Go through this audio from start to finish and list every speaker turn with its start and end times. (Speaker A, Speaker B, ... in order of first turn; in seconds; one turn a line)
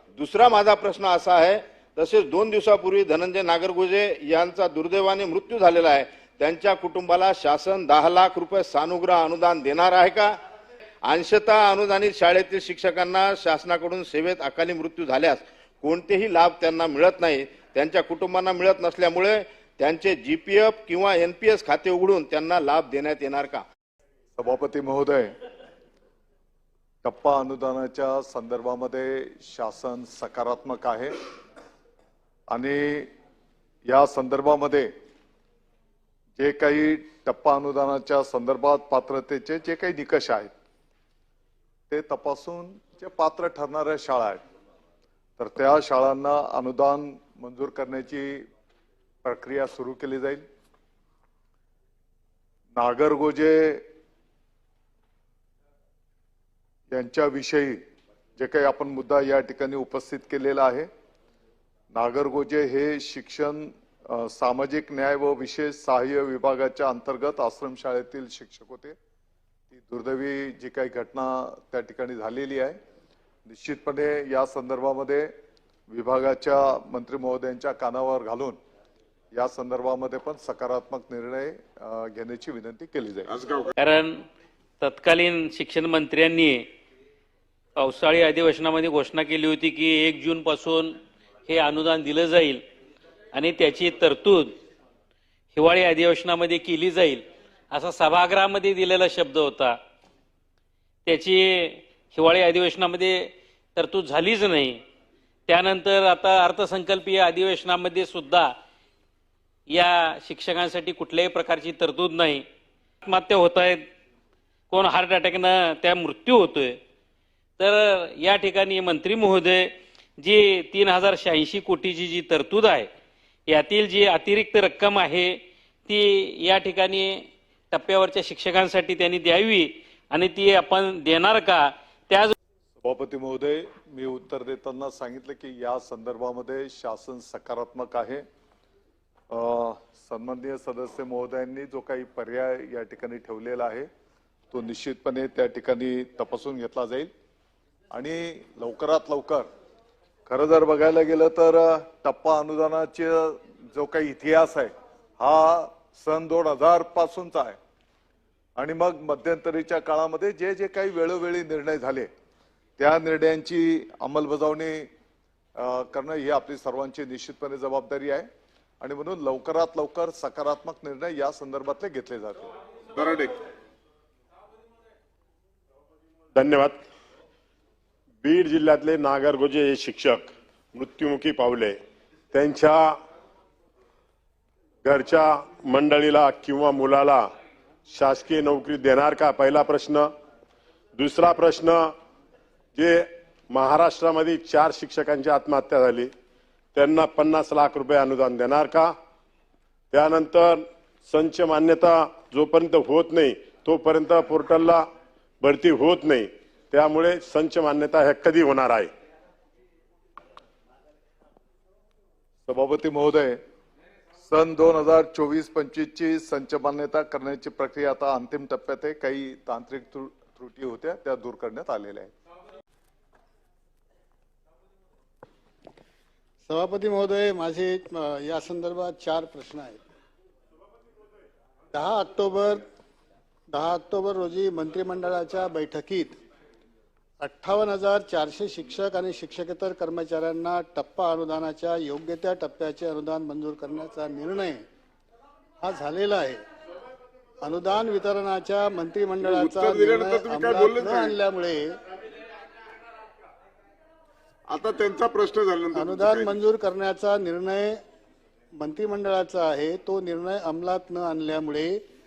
Speaker A: 0.2-10.3
Speaker A: 11.1-23.6
Speaker B: 24.4-25.3
Speaker B: 27.0-31.1
Speaker B: 32.5-33.1
Speaker B: 33.9-34.9
Speaker B: 36.4-40.5
Speaker B: 41.9-44.4
Speaker B: 45.4-48.5
Speaker B: 49.2-50.4
Speaker B: 52.8-53.8
Speaker B: 56.9-57.8
Speaker B: 58.4-60.9
Speaker B: 61.9-69.0
Speaker B: 69.7-72.8
Speaker B: 73.5-75.3
Speaker B: 75.9-78.6
Speaker B: 79.3-83.3
Speaker C: 83.3-83.7
Speaker D: 83.8-84.2
Speaker D: 84.8-86.7
Speaker D: 87.8-92.7
Speaker D: 93.3-94.6
Speaker D: 95.5-99.8
Speaker D: 101.0-104.8
Speaker D: 105.5-108.5
Speaker D: 109.7-112.5
Speaker D: 113.0-113.9
Speaker D: 114.7-116.8
Speaker D: 117.6-122.9
Speaker D: 123.5-132.3
Speaker B: 132.8-138.2
Speaker B: 139.3-143.9
Speaker B: 144.5-147.1
Speaker B: 147.9-149.5
Speaker B: 150.3-157.6
Speaker B: 158.6-162.1
Speaker B: 162.8-164.9
Speaker B: 165.6-168.3
Speaker B: 168.8-172.5
Speaker C: 172.9-173.3
Speaker E: 176.3-176.8
Speaker E: 178.2-181.8
Speaker E: 182.3-182.9
Speaker E: 184.8-187.3
Speaker E: 187.9-190.1
Speaker E: 191.0-191.9
Speaker E: 192.8-196.1
Speaker E: 196.8-198.9
Speaker E: 199.9-204.8
Speaker E: 205.4-208.9
Speaker B: 212.5-213.4
Speaker B: 214.2-222.1
Speaker F: 226.5-229.8
Speaker F: 231.7-232.6
Speaker F: 233.5-236.2
Speaker F: 237.2-244.7
Speaker F: 245.6-246.4
Speaker F: 247.4-251.8
Speaker C: 249.2-251.2
Speaker C: 254.5-256.4
Speaker F: 255.7-257.8
Speaker F: 258.6-261.8